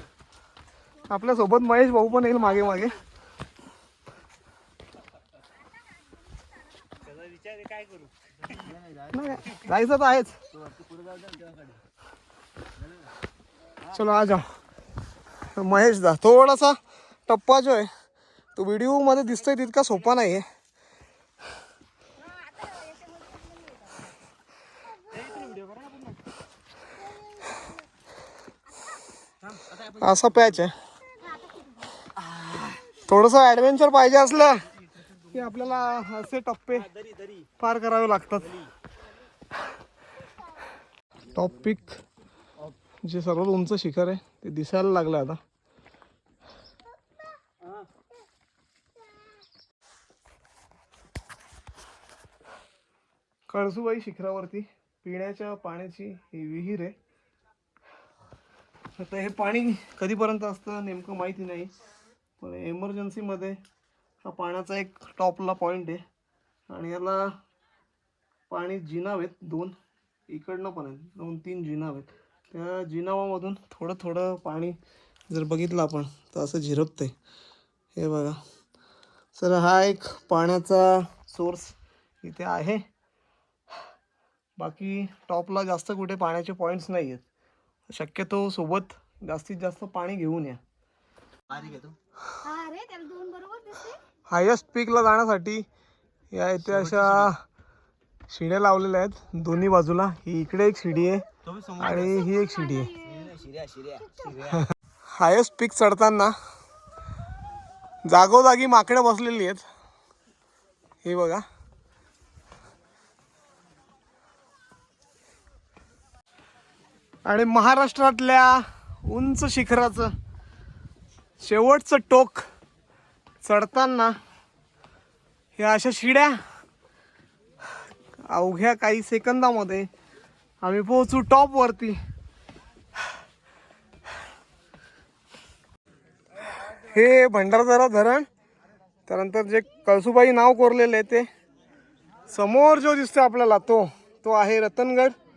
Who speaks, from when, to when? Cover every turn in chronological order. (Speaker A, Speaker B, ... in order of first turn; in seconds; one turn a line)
Speaker A: 1.1-3.0
Speaker B: 8.5-9.2
Speaker A: 9.1-10.4
Speaker B: 10.5-11.8
Speaker A: 13.9-14.4
Speaker A: 15.5-17.9
Speaker A: 18.5-20.4
Speaker A: 29.9-30.7
Speaker A: 33.0-34.6
Speaker A: 35.3-36.9
Speaker A: 37.6-38.6
Speaker A: 41.3-42.0
Speaker A: 43.0-45.4
Speaker A: 53.5-56.9
Speaker A: 59.0-61.7
Speaker A: 62.4-63.6
Speaker A: 64.2-66.0
Speaker A: 66.7-67.3
Speaker A: 68.5-69.8
Speaker A: 70.3-74.8
Speaker A: 75.3-77.1
Speaker A: 78.0-78.4
Speaker A: 79.3-82.8
Speaker A: 84.6-87.2
Speaker A: 87.9-90.6
Speaker C: 92.4-94.0
Speaker A: 94.3-95.7
Speaker A: 96.3-97.4
Speaker B: 96.8-97.3
Speaker A: 98.3-101.2
Speaker B: 101.5-101.9
Speaker A: 101.8-102.9
Speaker C: 102.0-103.3
Speaker B: 103.0-104.6
Speaker A: 105.2-106.3
Speaker A: 108.0-109.6
Speaker A: 111.0-111.4
Speaker A: 117.2-120.1
Speaker A: 121.4-122.4
Speaker A: 123.4-124.1
Speaker A: 125.6-126.4
Speaker A: 128.3-129.9
Speaker A: 130.6-132.0
Speaker A: 136.6-138.3
Speaker A: 139.1-141.3
Speaker A: 142.3-145.1